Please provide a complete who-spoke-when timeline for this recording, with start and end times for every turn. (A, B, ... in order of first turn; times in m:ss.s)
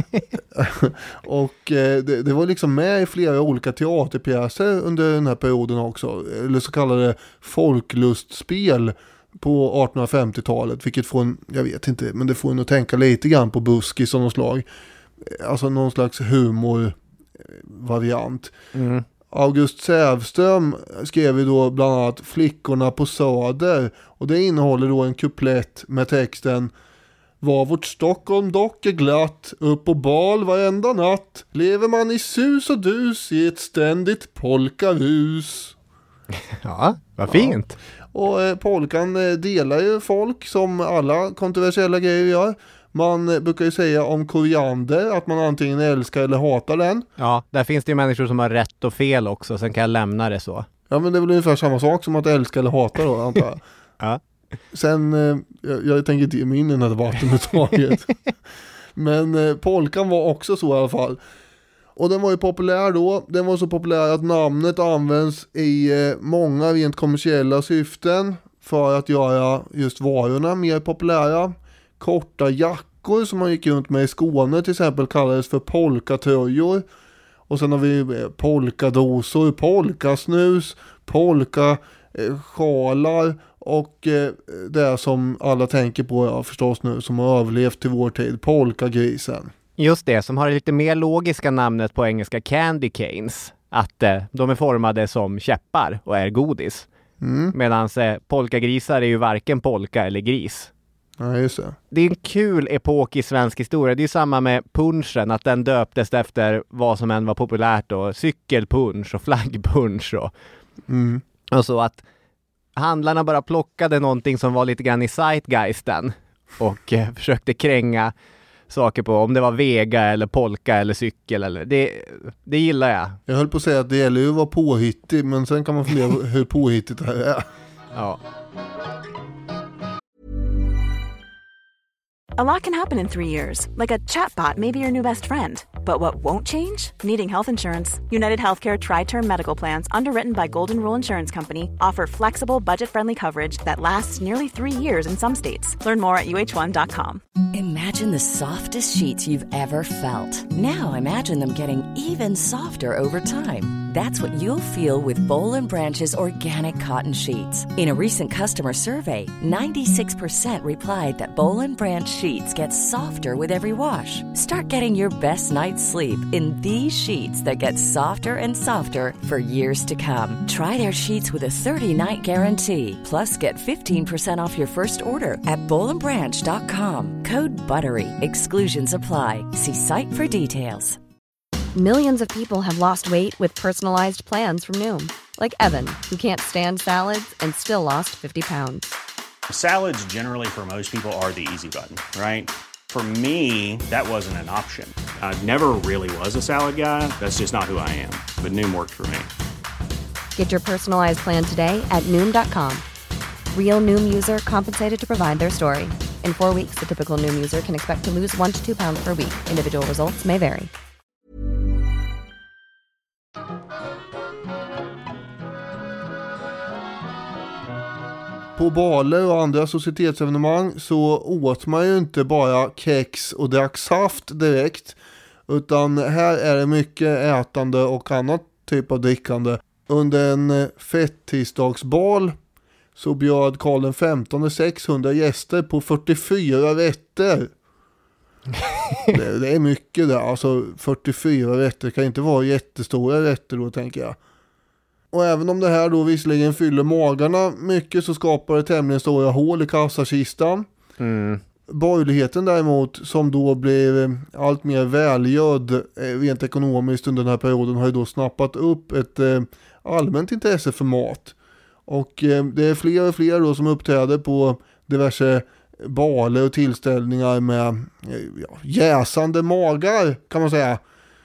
0:00.4-0:14.7 A
0:15.2-0:18.6 A
0:18.7-0:19.0 B
0:19.3-0:26.7 A
0:27.4-0:35.8 A
0:36.6-0:37.8 B
0:37.3-0:37.6 A
0:38.1-0:47.1 A
0:47.2-0:50.7 B
0:50.9-0:53.6 A
0:54.7-0:58.1 A
0:59.0-1:01.2 A
1:02.0-1:16.8 A
1:17.5-1:29.5 A
1:29.8-1:36.9 B
1:37.2-1:37.5 A
1:37.5-1:40.7 B
1:41.2-1:41.8 A
1:41.9-1:50.3 B
1:50.9-1:51.2 A
1:51.5-1:52.0 B
1:52.8-1:58.1 B
1:58.7-2:03.2 B
2:03.3-2:07.5 A
2:07.9-2:08.2 B
2:12.4-2:27.2 C
2:27.5-3:01.0 D
3:01.8-3:08.9 E
3:09.5-3:19.3 F
3:20.4-3:22.8 E
3:23.5-3:30.7 E
3:38.6-3:52.4 A
3:53.0-3:57.5 A
3:58.6-3:59.1 B
3:59.1-4:04.2 A
4:05.1-4:10.7 A
4:11.0-4:11.4 B
4:11.7-4:21.4 A
4:21.9-4:30.8 A